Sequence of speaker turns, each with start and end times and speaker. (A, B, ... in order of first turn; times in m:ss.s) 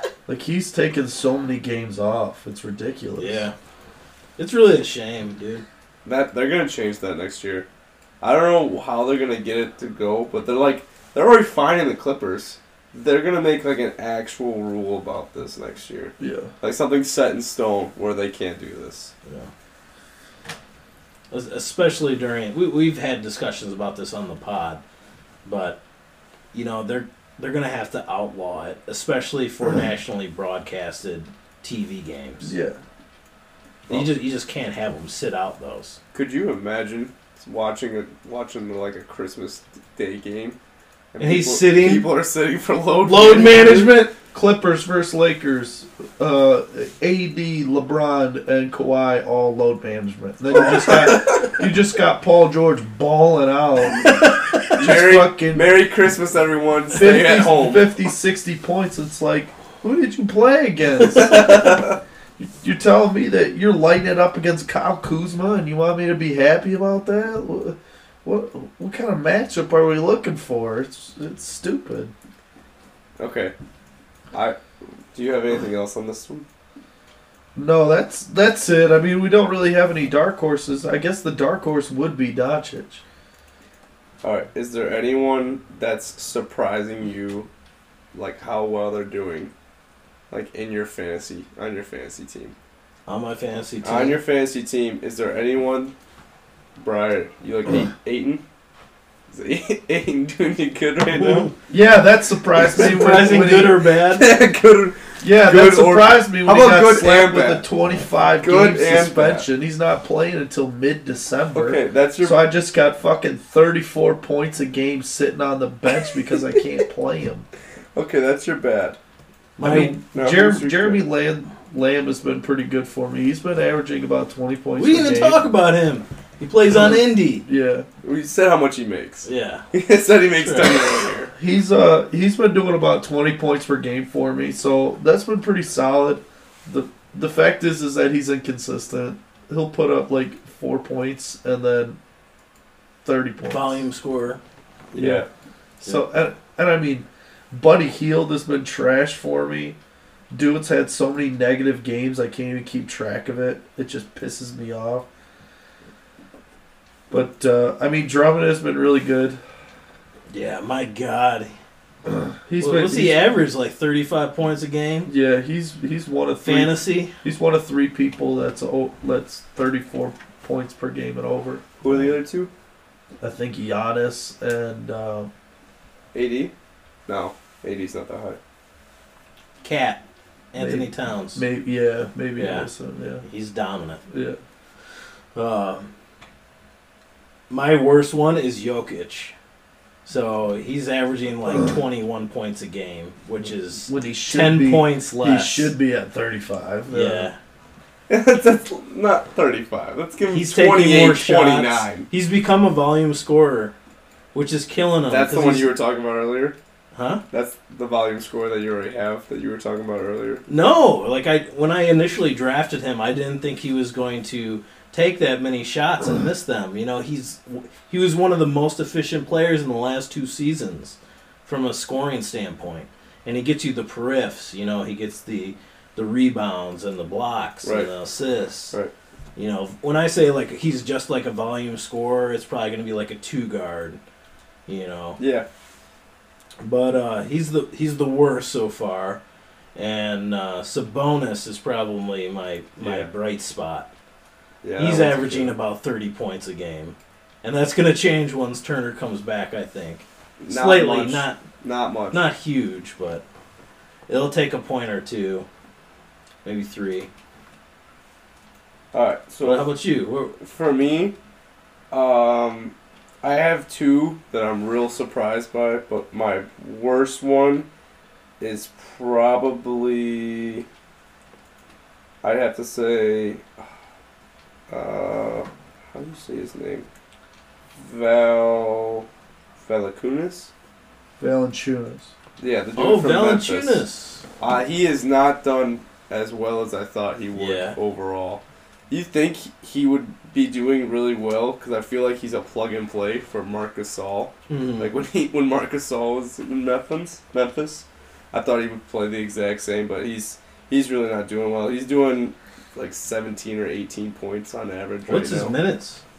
0:00.2-0:03.4 A
0:03.2-0:03.6 B
0:04.4-0:05.6 B
0:06.0-0:07.7 C
0:08.2-0:19.1 C
0:16.2-0:16.5 A
0:19.2-0:19.5 B
0:21.3-0:24.8 B
0:25.4-0:25.8 B
0:26.5-0:32.5 B
0:32.4-0:32.8 A
0:33.9-0:36.0 B
0:36.1-0:40.6 C
0:41.1-0:44.0 C
0:41.2-0:42.1 B
0:43.0-0:44.1 B
0:43.4-0:55.7 A
0:50.5-0:51.5 B
0:50.8-0:51.5 C
0:54.0-0:54.7 B
0:54.7-0:57.9 C
0:56.9-1:01.8 A
1:01.2-1:02.0 C
1:02.4-1:12.1 A
1:13.2-1:13.5 C
1:14.3-1:14.6 C
1:15.1-1:16.4 C
1:17.6-1:23.0 A
1:24.2-1:27.5 C
1:28.1-1:29.5 C
1:30.3-1:32.6 C
1:33.1-1:34.2 B
1:33.8-1:35.9 C
1:36.8-1:38.4 C
1:39.3-1:41.5 C
1:41.1-1:41.5 B
1:41.7-1:43.8 A
1:42.6-1:47.6 C
1:42.7-1:44.3 B
1:45.2-1:57.5 A
1:48.4-1:49.4 C
1:51.6-1:52.4 C
1:58.0-1:59.0 C
1:59.6-2:00.0 B
1:59.6-2:05.4 A
2:00.1-2:01.0 C
2:04.8-2:07.4 B
2:06.7-2:07.9 A
2:08.0-2:11.3 C
2:09.2-2:09.6 B
2:10.4-2:10.8 B
2:11.4-2:22.0 A
2:23.0-2:23.8 A
2:23.4-2:24.4 B
2:24.9-2:25.2 A
2:24.9-2:25.3 C
2:25.8-2:29.8 A
2:30.3-2:35.1 A
2:37.1-2:39.4 A
2:40.3-2:41.5 B
2:42.0-2:43.2 A
2:42.6-2:45.1 B
2:45.0-2:52.1 A
2:46.4-2:47.1 B
2:51.8-2:52.5 C
2:53.2-2:55.3 A
2:56.1-2:56.5 C
2:57.1-2:58.4 C
2:59.6-3:00.0 B
3:00.5-3:01.4 B
3:00.6-3:03.2 A
3:02.4-3:02.7 B
3:03.2-3:04.0 B
3:04.1-3:04.4 A
3:05.3-3:05.9 B
3:07.5-3:09.3 B
3:10.0-3:15.7 B
3:13.9-3:17.3 A
3:16.9-3:17.4 B
3:18.1-3:22.1 C
3:20.3-3:23.7 B
3:24.3-3:25.7 B
3:25.1-3:26.6 C
3:26.9-3:27.2 B
3:27.3-3:30.4 C
3:30.5-3:48.8 B
3:47.6-3:47.9 C
3:49.4-3:54.0 B
3:54.7-3:55.2 B
3:55.2-3:55.4 C
3:56.6-3:59.2 B
3:59.7-4:03.9 B
4:02.8-4:03.1 C
4:04.6-4:05.6 C
4:04.8-4:11.4 B
4:10.4-4:12.3 C
4:12.1-4:13.2 B
4:14.1-4:15.5 B
4:16.4-4:17.1 B
4:18.9-4:19.7 C
4:19.4-4:20.3 B
4:20.4-4:21.1 C
4:21.9-4:27.7 C
4:28.4-4:30.7 C
4:32.2-4:33.4 C
4:34.7-4:36.9 C
4:37.8-4:39.0 C
4:39.6-4:40.5 C
4:41.2-4:42.1 A
4:42.4-4:43.8 C
4:42.8-4:44.3 B
4:44.4-5:05.6 C
4:47.3-4:47.8 B
4:54.5-4:54.9 B
5:05.1-5:06.0 B